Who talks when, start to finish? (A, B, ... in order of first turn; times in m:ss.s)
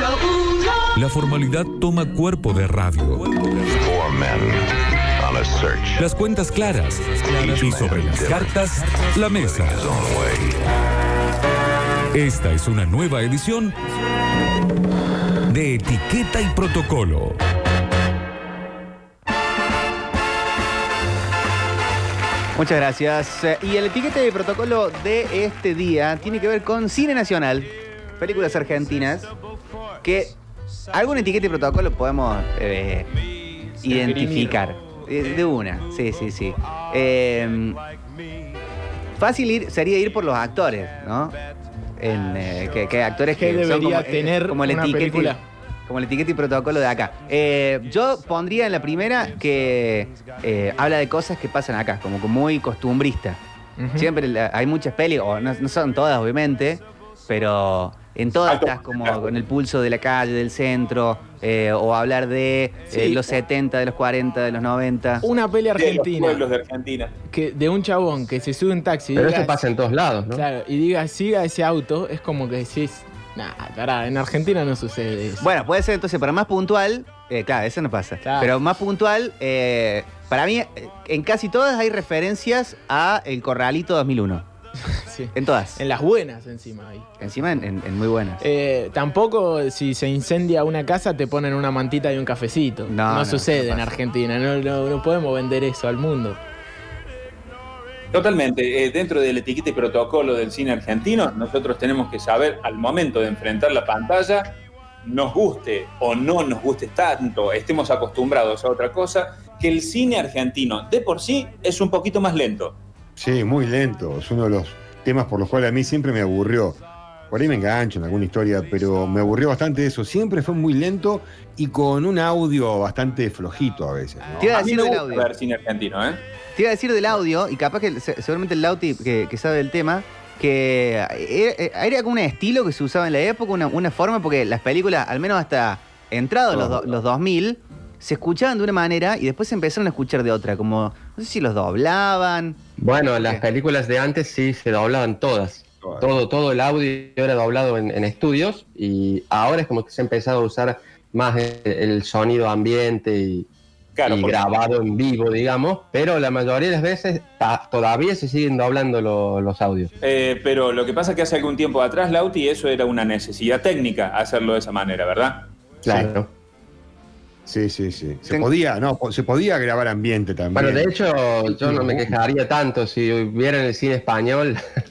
0:01.0-0:03.3 A
0:03.8-0:06.0 B
0:05.9-0:10.2 A
0:07.3-0:08.6 B
0:09.4-0:10.6 B
0:12.1-0:13.8 A
0:15.5-0:17.4 A
0:22.6-0:29.3 C
0:30.0-0:30.4 C
0:30.9-0:33.1 C
0:33.8-0:37.8 C
0:33.9-0:34.6 D
0:39.2-0:41.4 C
0:42.0-0:53.4 C
0:43.4-0:45.4 D
0:53.8-0:54.1 D
0:54.0-1:05.3 C
0:58.5-0:59.3 E
1:02.9-1:03.3 D
1:05.2-1:06.4 D
1:05.8-1:07.1 E
1:07.3-1:09.5 D
1:09.2-1:10.4 F
1:10.3-1:15.5 D
1:15.4-1:24.5 C
1:18.2-1:18.5 D
1:24.8-1:27.1 D
1:25.3-1:25.8 C
1:27.2-1:28.4 C
1:28.4-1:36.4 D
1:32.9-1:34.0 C
1:38.1-1:52.8 E
1:53.2-1:56.8 G
1:57.3-2:04.5 G
2:04.4-2:05.3 C
2:04.5-2:06.2 E
2:06.6-2:22.6 C
2:22.8-2:33.5 F
2:23.2-2:23.4 C
2:25.8-2:26.1 G
2:34.0-2:34.6 E
2:34.1-2:39.9 F
2:40.0-2:45.5 E
2:45.8-2:46.3 F
2:45.9-2:46.1 G
2:47.5-2:52.1 G
2:50.6-2:54.8 F